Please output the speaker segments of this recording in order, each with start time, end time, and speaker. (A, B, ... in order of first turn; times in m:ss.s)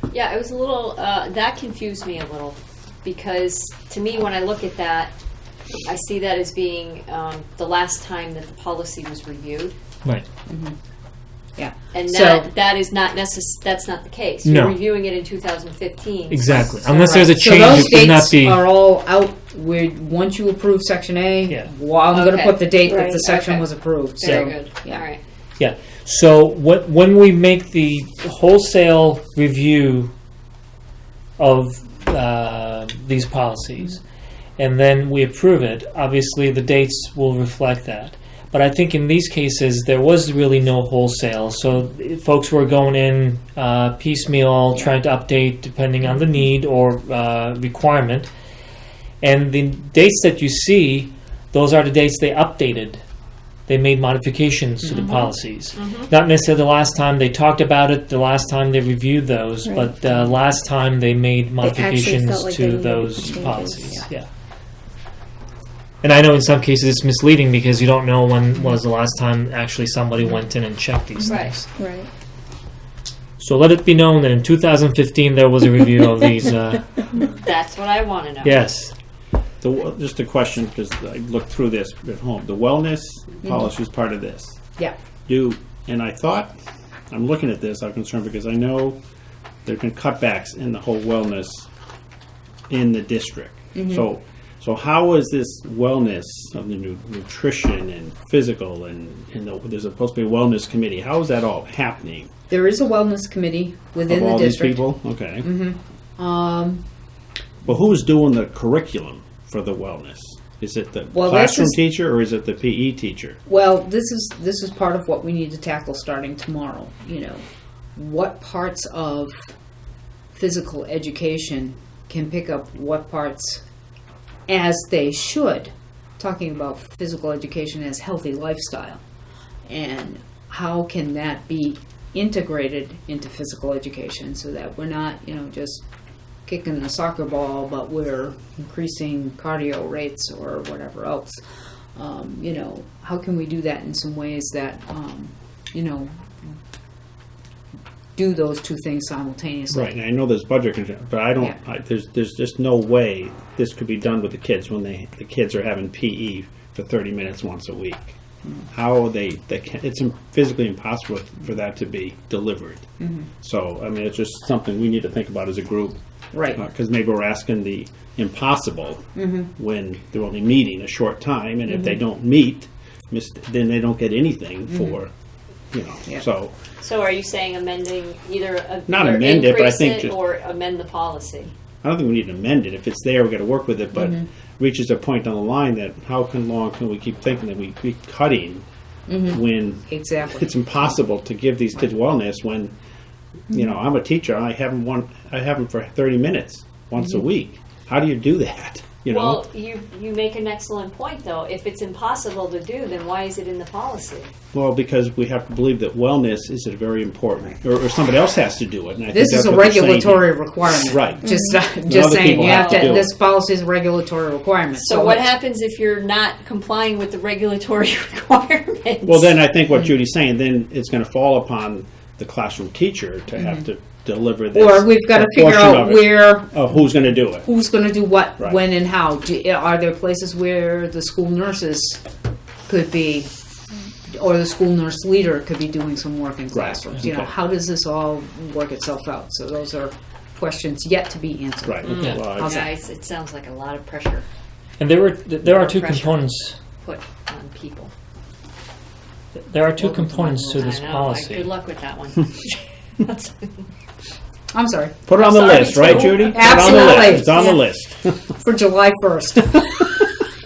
0:00.1-0:05.1 A
0:05.9-0:09.7 A
0:10.5-0:10.7 B
0:11.6-0:12.5 B
0:11.9-0:17.1 A
0:14.4-0:14.8 C
0:16.3-0:18.7 C
0:16.9-0:25.0 B
0:22.1-0:25.2 A
0:22.8-0:23.3 D
0:24.2-0:24.6 C
0:25.6-0:30.1 C
0:31.4-0:34.0 C
0:34.6-0:48.3 C
0:49.2-0:53.0 C
0:53.7-1:04.3 C
0:55.0-0:55.3 D
0:55.8-0:56.1 A
0:59.6-1:00.3 D
1:01.6-1:04.1 D
1:06.0-1:11.7 C
1:11.2-1:11.6 A
1:11.8-1:12.1 D
1:13.4-1:17.1 C
1:17.4-1:18.6 A
1:18.4-1:18.9 C
1:19.6-1:24.6 E
1:23.4-1:23.7 B
1:25.3-1:26.6 E
1:27.1-1:29.0 E
1:29.6-1:31.7 E
1:32.7-1:42.3 E
1:33.8-1:34.1 B
1:42.5-1:44.8 B
1:44.1-1:45.5 E
1:45.4-1:46.8 B
1:47.6-1:53.4 E
1:51.1-1:51.8 B
1:53.5-1:57.4 B
1:58.0-1:59.4 B
2:00.4-2:03.6 B
2:04.5-2:09.0 B
2:09.7-2:15.8 B
2:16.5-2:21.4 B
2:22.0-2:26.6 B
2:28.2-2:29.9 B
2:29.7-2:38.2 E
2:38.7-2:42.9 E
2:43.0-2:43.3 B
2:43.4-2:46.0 E
2:46.3-2:46.6 B
2:46.5-2:55.1 E
2:49.2-2:49.5 B
2:51.7-2:52.0 B
2:54.7-2:55.0 B
2:55.7-2:56.5 E
2:56.8-3:01.5 A
2:58.9-3:00.2 E
3:01.8-3:08.7 E
3:03.9-3:04.3 B
3:09.1-3:10.5 B
3:09.2-3:12.7 E
3:13.5-3:19.4 E
3:13.5-3:13.8 B
3:19.1-3:24.3 A
3:24.5-3:31.2 E
3:29.1-3:35.3 B
3:31.2-3:31.6 D
3:31.8-3:33.1 E
3:32.4-3:33.1 A
3:34.7-3:39.4 A
3:39.0-3:47.5 E
3:43.4-3:43.7 B
3:44.6-3:46.5 B
3:47.4-3:52.0 B
3:52.7-3:53.3 B
3:54.1-4:02.7 B
3:56.5-3:57.3 E
4:01.6-4:02.6 E
4:01.8-4:04.3 A
4:04.8-4:06.6 C
4:05.4-4:07.9 A
4:09.4-4:11.5 C
4:09.8-4:10.6 B
4:10.5-4:13.5 A
4:14.5-4:17.6 B
4:15.1-4:18.4 E
4:15.2-4:17.5 A
4:18.4-4:20.1 B